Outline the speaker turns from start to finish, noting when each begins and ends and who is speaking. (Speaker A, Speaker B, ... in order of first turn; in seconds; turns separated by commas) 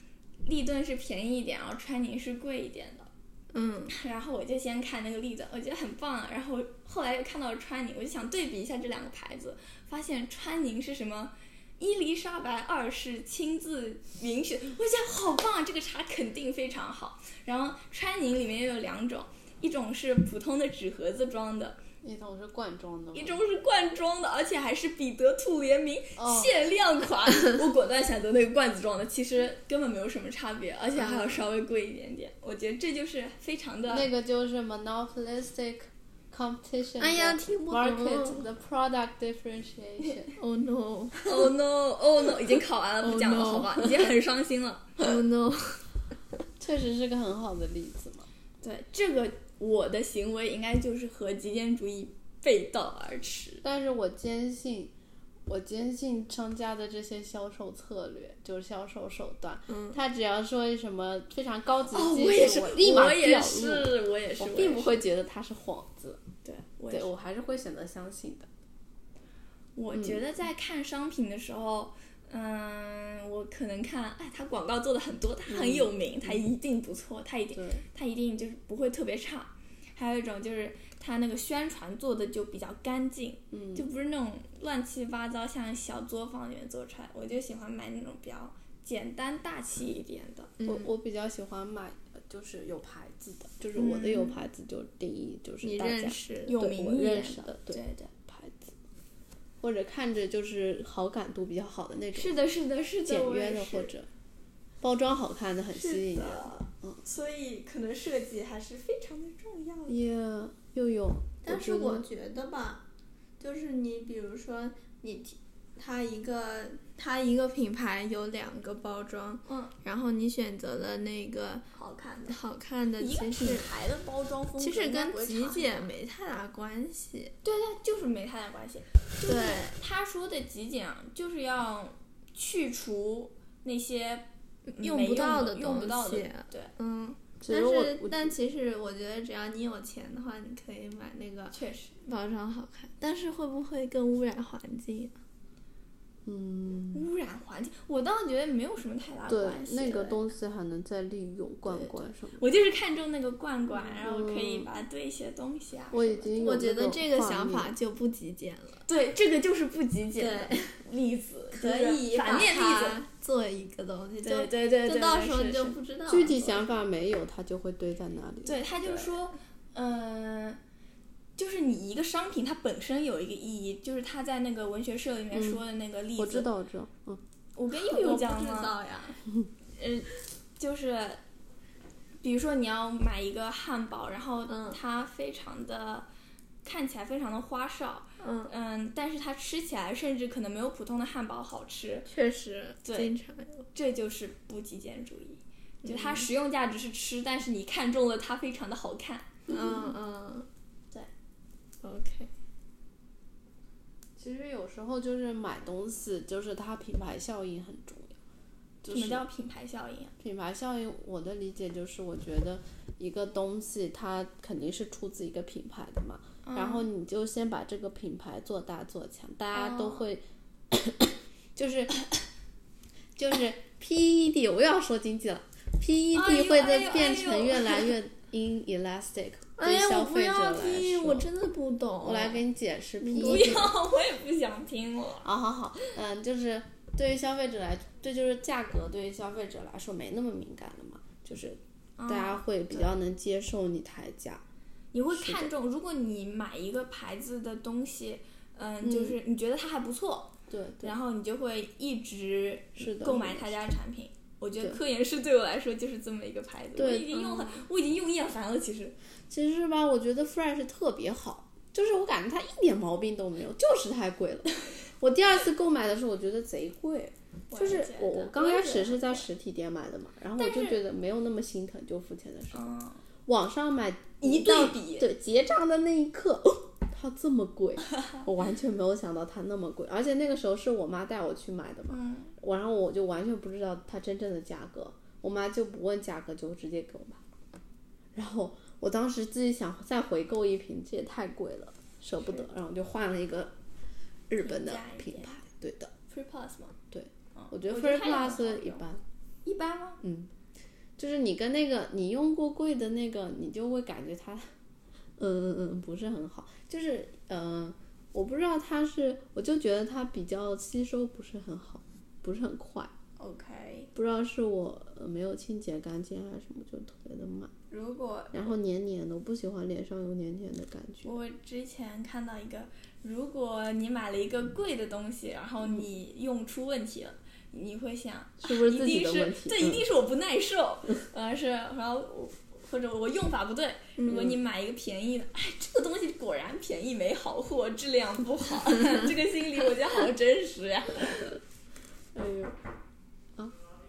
Speaker A: 0.4-3.1, Speaker B: 3.5-3.9, Speaker A: 3.9-21.8, Speaker C: 22.0-23.4, Speaker A: 23.1-34.1, Speaker C: 26.2-26.5, Speaker B: 31.0-31.4, Speaker C: 33.9-40.4, Speaker B: 37.0-38.5, Speaker B: 40.4-41.5, Speaker A: 41.2-45.1, Speaker B: 43.0-44.1, Speaker B: 45.0-45.8, Speaker C: 46.6-48.3, Speaker A: 48.6-53.6, Speaker C: 53.6-54.9, Speaker C: 55.5-66.2, Speaker B: 59.7-60.0, Speaker A: 61.9-65.0, Speaker A: 66.4-67.1, Speaker C: 66.9-68.5, Speaker A: 69.8-90.5, Speaker C: 75.5-76.4, Speaker C: 77.5-77.8, Speaker C: 83.5-83.9, Speaker B: 90.6-90.9, Speaker C: 90.6-98.7, Speaker A: 93.8-94.4, Speaker B: 95.6-96.6, Speaker A: 96.5-98.1, Speaker C: 99.6-102.4, Speaker A: 102.1-103.9, Speaker C: 103.0-104.1, Speaker C: 104.8-107.0, Speaker A: 105.7-110.0, Speaker C: 109.9-112.0, Speaker B: 111.4-112.8, Speaker B: 113.4-121.6, Speaker A: 119.5-119.7, Speaker A: 121.7-122.4, Speaker B: 122.2-123.7, Speaker A: 123.0-125.9, Speaker B: 124.6-127.3, Speaker A: 127.4-134.3, Speaker B: 129.2-129.7, Speaker B: 134.7-145.2, Speaker A: 134.8-136.7, Speaker C: 137.4-138.3, Speaker A: 141.5-141.9, Speaker C: 146.2-147.1, Speaker A: 146.9-150.3, Speaker C: 149.3-152.4, Speaker A: 152.4-156.3, Speaker C: 154.0-154.7, Speaker C: 155.9-157.7, Speaker B: 156.4-158.8, Speaker A: 158.8-163.0, Speaker B: 160.2-160.8, Speaker B: 161.5-166.7, Speaker A: 164.2-165.8, Speaker C: 166.1-169.0, Speaker A: 168.4-170.6, Speaker A: 171.4-176.5, Speaker C: 175.3-175.6, Speaker C: 176.2-177.2, Speaker A: 177.6-178.8, Speaker B: 177.8-179.2, Speaker A: 179.8-181.2, Speaker A: 182.2-186.1, Speaker B: 184.5-184.8, Speaker A: 186.6-192.1, Speaker B: 188.2-188.5, Speaker B: 192.1-193.7, Speaker A: 192.8-193.1, Speaker A: 193.7-199.5, Speaker B: 195.8-196.3, Speaker B: 199.5-200.5, Speaker B: 201.8-202.3, Speaker C: 204.2-208.2, Speaker C: 208.8-209.3, Speaker A: 208.9-210.1, Speaker C: 210.2-222.0, Speaker A: 216.4-216.8, Speaker A: 219.5-220.0, Speaker C: 223.2-231.3, Speaker A: 226.1-227.9, Speaker B: 229.6-232.4, Speaker C: 232.0-233.7, Speaker B: 233.0-233.7, Speaker A: 233.2-235.3, Speaker C: 235.2-244.4, Speaker A: 242.0-242.9, Speaker A: 244.9-258.9, Speaker C: 245.1-245.5, Speaker C: 248.8-249.2, Speaker C: 250.5-250.9, Speaker C: 252.8-253.6, Speaker C: 256.8-257.2, Speaker B: 257.1-257.6, Speaker C: 259.3-272.6, Speaker A: 267.5-269.3, Speaker A: 270.4-270.8, Speaker A: 272.5-273.0, Speaker C: 273.2-287.2, Speaker A: 274.2-275.1, Speaker A: 281.9-282.3, Speaker C: 288.1-293.5, Speaker A: 292.2-292.4, Speaker C: 294.3-295.9, Speaker A: 294.4-295.4, Speaker A: 296.1-296.8, Speaker C: 296.9-299.0, Speaker A: 297.3-298.9, Speaker A: 299.4-300.0, Speaker C: 300.0-300.3, Speaker C: 301.0-304.5, Speaker C: 305.2-312.9, Speaker A: 313.2-313.9, Speaker C: 313.9-317.5, Speaker A: 317.7-318.5, Speaker C: 318.3-321.2, Speaker A: 321.0-341.3, Speaker C: 328.4-329.9, Speaker B: 334.0-334.3, Speaker C: 334.1-334.4, Speaker C: 342.1-342.5